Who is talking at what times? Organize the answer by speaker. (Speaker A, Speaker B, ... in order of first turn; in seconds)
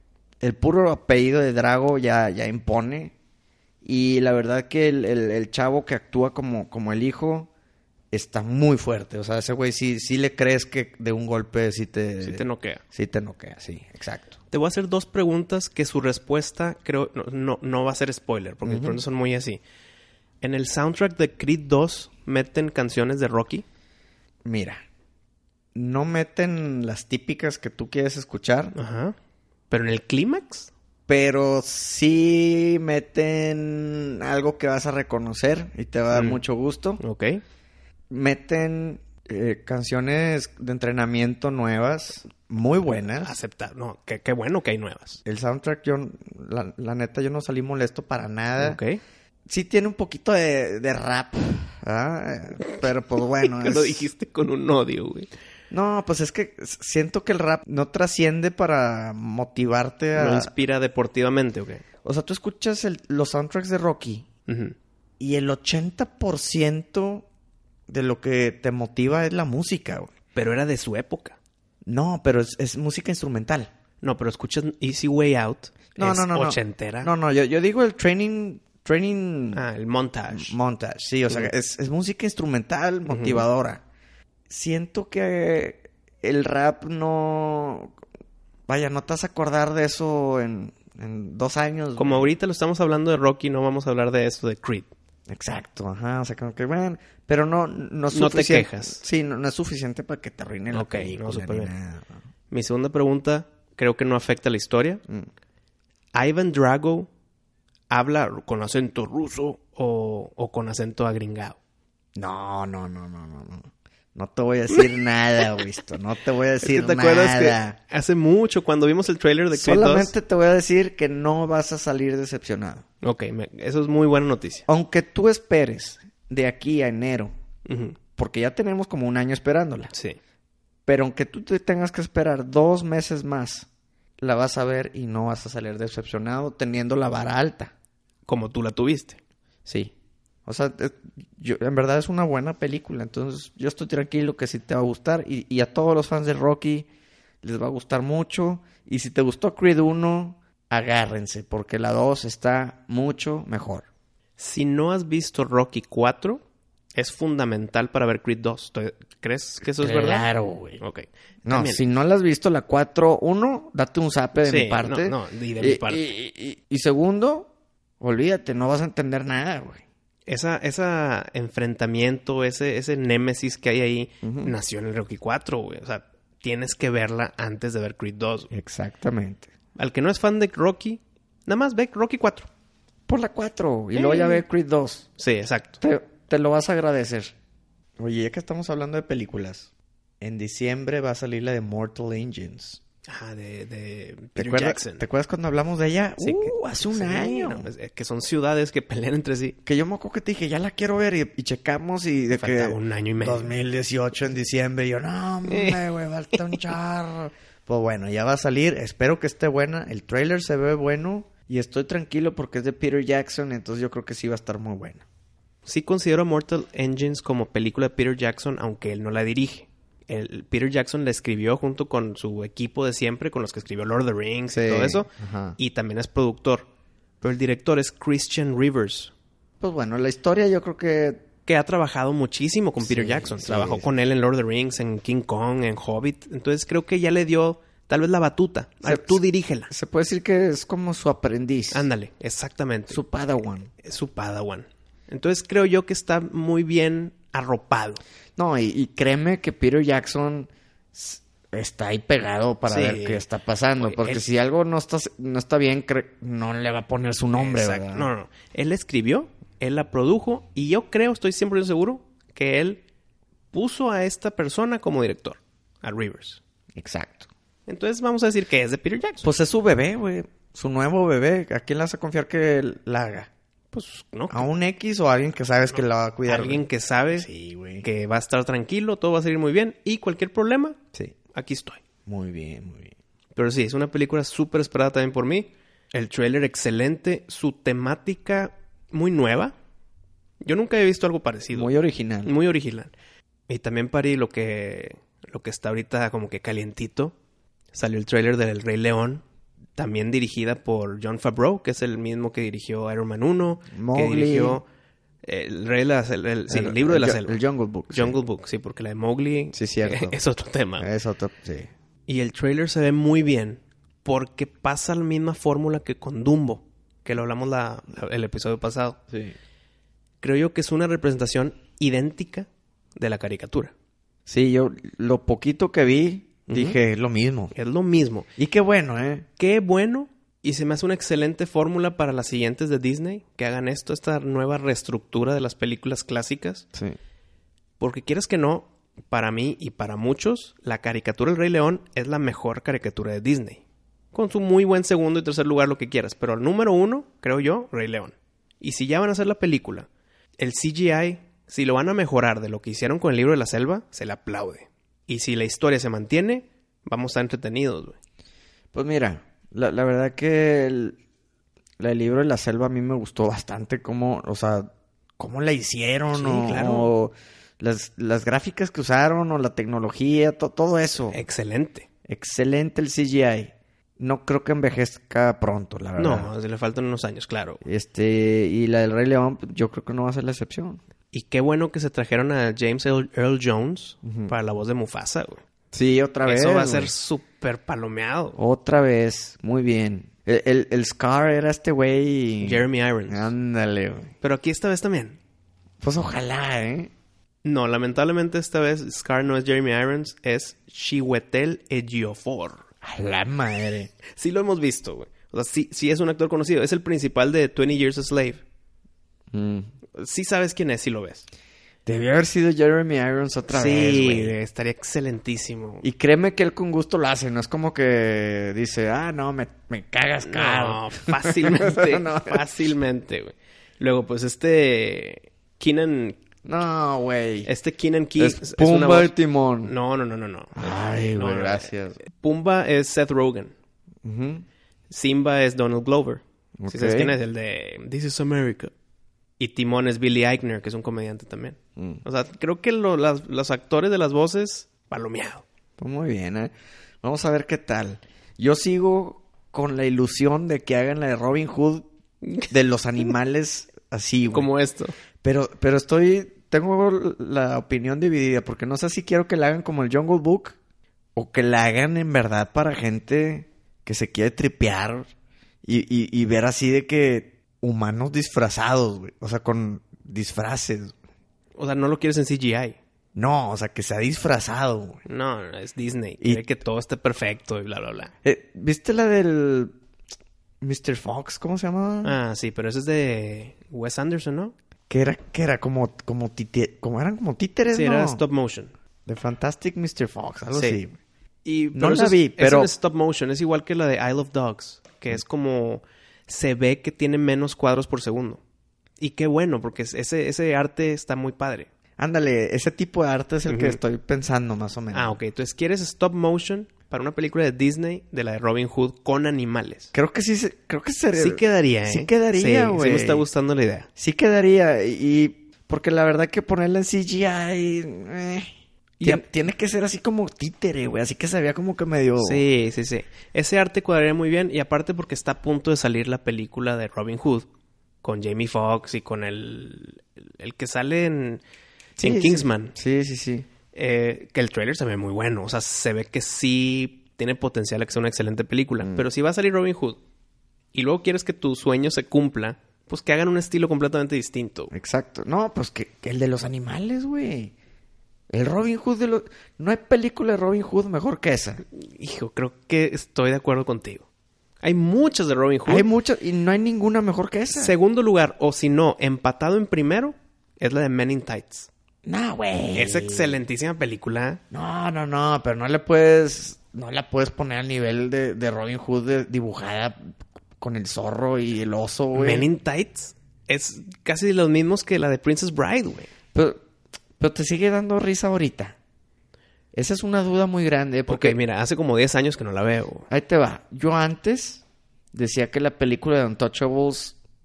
Speaker A: 0.4-3.1, 3.8-7.5, 8.1-14.4, 18.6-19.0, 24.4-24.8, 25.7-28.7, 31.1-37.0, 38.1-43.3, 45.2-48.8, 49.5-54.1, 55.7-60.5, 62.0-64.2, 65.2-67.2, 67.9-70.1, 71.8-73.7, 76.0-79.6, 80.3-83.8, 84.5-87.9, 88.7-92.3, 95.3-102.2, 112.1-117.8, 119.5-122.8, 124.7-127.3, 128.2-129.9, 130.8-133.7, 134.2-137.7, 139.7-139.9, 140.4-146.9, 147.4-153.8, 159.8-160.8, 161.4-169.8, 174.2-174.5, 178.5-179.5, 183.1-185.1, 185.8-187.3, 188.0-189.7, 190.2-192.8, 194.3-197.7, 199.7-215.0, 224.5-225.6, 229.6-231.2, 232.8-233.8, 238.8-241.9, 242.9-243.7, 248.4-258.1, 266.7-267.3, 269.2-273.3, 274.3-277.8, 282.1-282.9, 291.5-292.3, 303.7-304.6, 306.5-308.2, 309.5-310.2, 310.8-311.7, 319.1-319.3, 324.3-327.5, 328.4-329.3, 358.7-361.0, 361.8-371.2, 372.1-376.3, 377.6-380.8, 384.0-384.3, 385.7-386.9, 388.4-394.1, 395.8-396.9, 402.8-403.9, 409.3-409.7, 411.9-414.3, 415.8-422.4, 426.4-427.5, 428.2-429.7, 430.6-432.0, 434.0-434.4, 436.6-437.1, 441.8-442.0, 445.8-446.5, 447.0-451.9, 452.5-454.5, 455.2-460.6, 461.1-465.1, 465.6-470.9, 473.1-475.0, 478.2-479.7, 480.6-482.2, 484.9-488.2, 489.1-491.0, 491.7-492.7, 502.0-505.1, 509.9-513.2, 514.0-522.4, 532.0-533.5, 544.7-547.5, 548.3-551.6, 555.6-557.7, 562.0-563.4, 564.5-570.0, 570.6-572.5, 576.3-576.6, 577.2-578.8, 579.7-581.4, 583.1-584.6, 585.1-587.1
Speaker B: 12.2-12.8, 14.5-19.6, 20.4-23.6, 28.7-29.1, 29.7-30.7, 36.1-36.4, 37.0-37.4, 43.2-45.2, 48.6-49.0, 53.4-55.3, 60.1-61.8, 64.5-64.7, 70.3-71.4, 74.0-77.1, 79.5-80.5, 83.1-83.4, 92.0-94.9, 98.1-99.0, 100.7-101.7, 102.5-105.0, 106.1-107.1, 107.9-111.6, 116.6-120.1, 123.0-124.6, 127.7-128.0, 138.3-139.2, 154.4-156.4, 156.9-160.3, 160.8-161.8, 164.4-166.1, 170.3-178.5, 179.8-182.5, 183.9-184.4, 185.2-185.8, 193.1-195.1, 196.2-199.6, 202.3-203.5, 205.5-205.8, 215.7-226.7, 227.2-229.1, 231.4-239.7, 241.7-243.0, 243.8-248.0, 252.7-253.2, 253.8-254.2, 257.3-262.8, 263.5-266.4, 267.7-269.3, 273.7-274.5, 276.2-277.3, 277.8-280.8, 281.3-281.8, 283.4-289.5, 290.4-291.7, 292.2-292.9, 293.5-297.1, 297.7-299.2, 299.8-304.6, 305.2-310.9, 312.1-319.0, 320.2-323.7, 326.5-326.8, 327.5-328.3, 329.4-336.6, 337.8-357.9, 366.1-366.9, 371.1-371.9, 376.0-377.6, 381.1-385.4, 386.2-388.4, 392.4-393.3, 394.2-395.2, 397.4-402.6, 404.1-408.4, 409.9-411.3, 413.5-415.8, 420.2-426.2, 427.4-429.1, 429.6-433.5, 434.9-438.7, 439.4-445.4, 452.2-452.5, 454.3-454.9, 471.6-472.8, 475.1-478.1, 482.0-484.5, 487.7-488.7, 490.5-490.8, 491.4-498.4, 499.0-501.7, 503.5-503.8, 504.9-509.9, 511.1-513.9, 519.0-519.2, 522.2-527.5, 528.0-531.4, 532.0-532.7, 533.7-540.0, 540.7-544.7, 551.7-554.0, 554.6-555.9, 557.5-561.7, 562.7-564.4, 572.1-576.1, 581.1-583.1